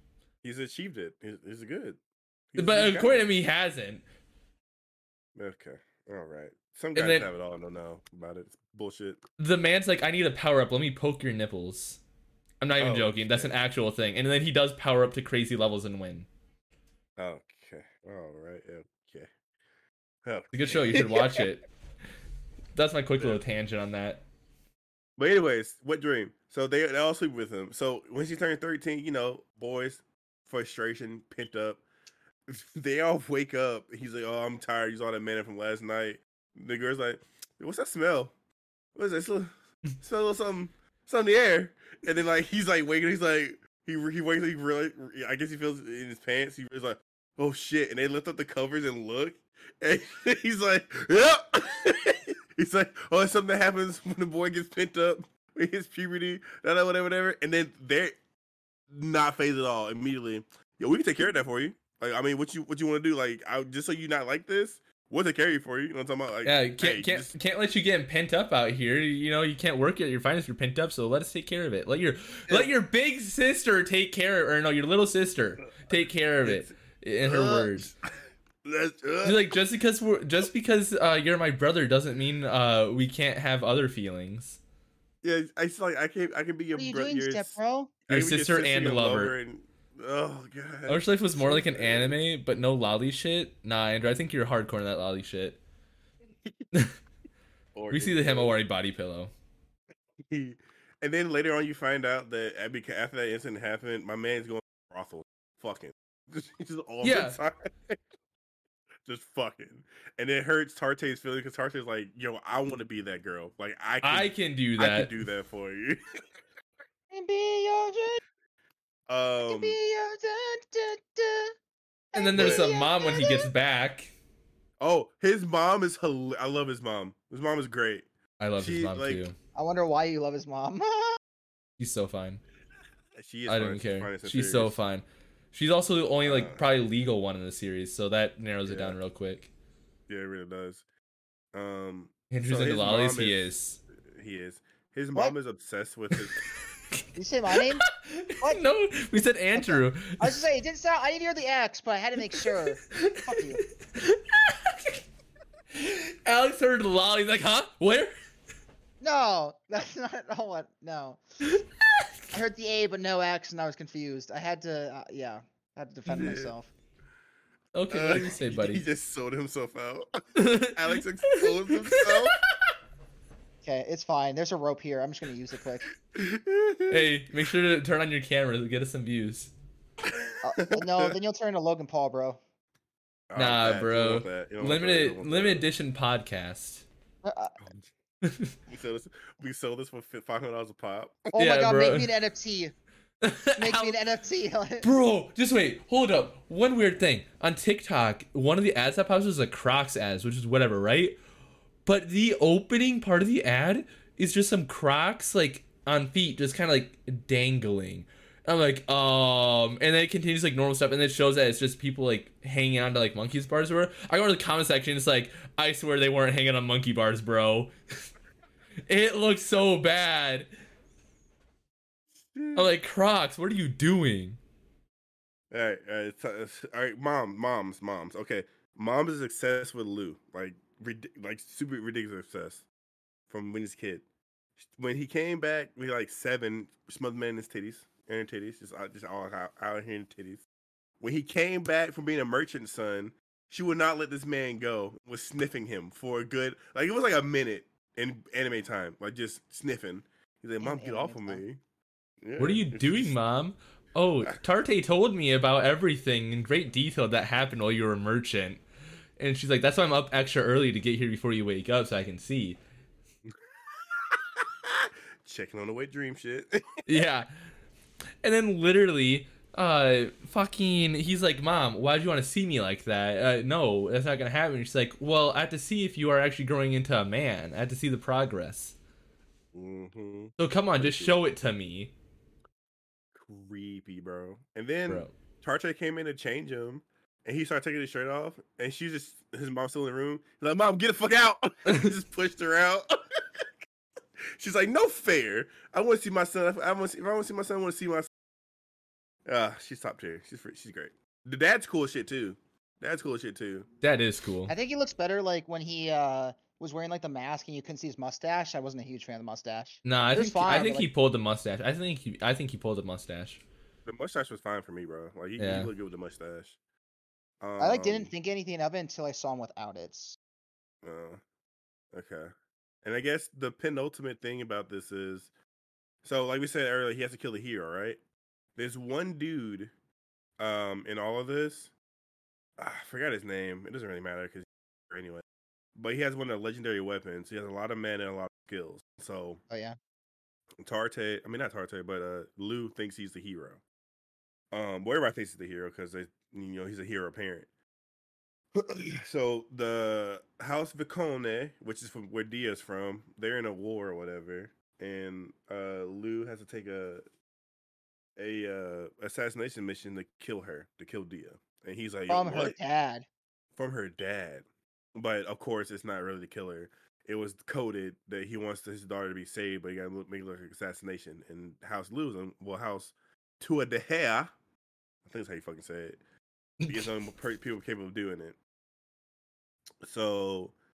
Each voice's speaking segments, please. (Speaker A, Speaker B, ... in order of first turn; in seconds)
Speaker A: 0.4-2.0, 2.5-3.3, 5.4-9.2, 12.8-13.5, 17.2-19.3, 20.2-21.5, 25.2-31.8, 32.5-38.3, 39.0-58.1, 58.9-67.3, 76.4-76.7, 77.2-77.9, 78.6-79.6, 85.2-92.2, 97.8-98.6, 100.2-108.0, 109.1-116.2, 119.1-119.8, 122.3-122.7, 124.8-129.2, 133.2-134.8, 136.2-136.6, 138.7-139.0, 140.1-140.8, 141.5-143.5, 144.0-146.4, 166.1-166.5, 167.9-172.4, 176.1-177.1, 180.0-181.1, 183.3-185.7, 188.7-191.3, 222.2-222.7, 225.5-232.7, 233.3-234.1, 234.6-240.4, 241.0-251.6, 252.2-253.2, 263.3-267.1, 279.5-281.2, 283.1-293.4, 294.4-298.1, 299.3-303.7, 313.9-316.6, 317.4-318.1, 320.8-321.2, 321.9-322.3, 322.8-325.3, 326.0-328.0, 328.6-329.7, 330.4-331.7, 332.6-335.2, 335.8-339.4, 340.6-343.6, 344.5-347.5, 348.6-357.1, 358.2-362.6, 363.6-374.3, 375.0-376.0, 376.7-378.4, 379.8-380.5
Speaker B: 2.6-4.0, 7.0-7.3, 9.4-12.0, 12.6-16.3, 20.5-21.7, 22.8-24.2, 66.5-77.9, 79.2-84.6, 88.1-89.3, 90.9-95.6, 97.9-99.3, 107.0-107.4, 114.0-115.1, 122.1-124.1, 128.4-129.3, 131.8-132.4, 133.5-139.5, 142.3-143.8, 147.5-150.4, 152.3-155.0, 155.7-158.1, 167.7-168.8, 170.4-172.4, 176.9-179.5, 183.4-186.8, 188.2-188.6, 191.4-192.1, 193.2-194.0, 194.8-201.2, 201.9-217.7, 218.9-220.5, 222.6-224.4, 252.4-258.6, 259.2-262.6, 266.9-267.3, 268.2-278.8, 280.4-281.9, 303.8-304.5, 309.9-313.4, 315.4-315.7, 376.6-376.9
Speaker C: 86.8-87.9, 117.1-118.2, 119.4-121.5, 122.1-123.5, 129.6-131.2, 147.2-147.9, 148.4-153.6, 159.0-161.2, 162.3-166.7, 173.6-175.9, 180.4-182.4, 187.2-187.6, 191.3-192.7, 193.6-194.9, 250.6-251.4, 304.5-310.9, 317.6-320.2, 339.5-339.8, 362.1-363.1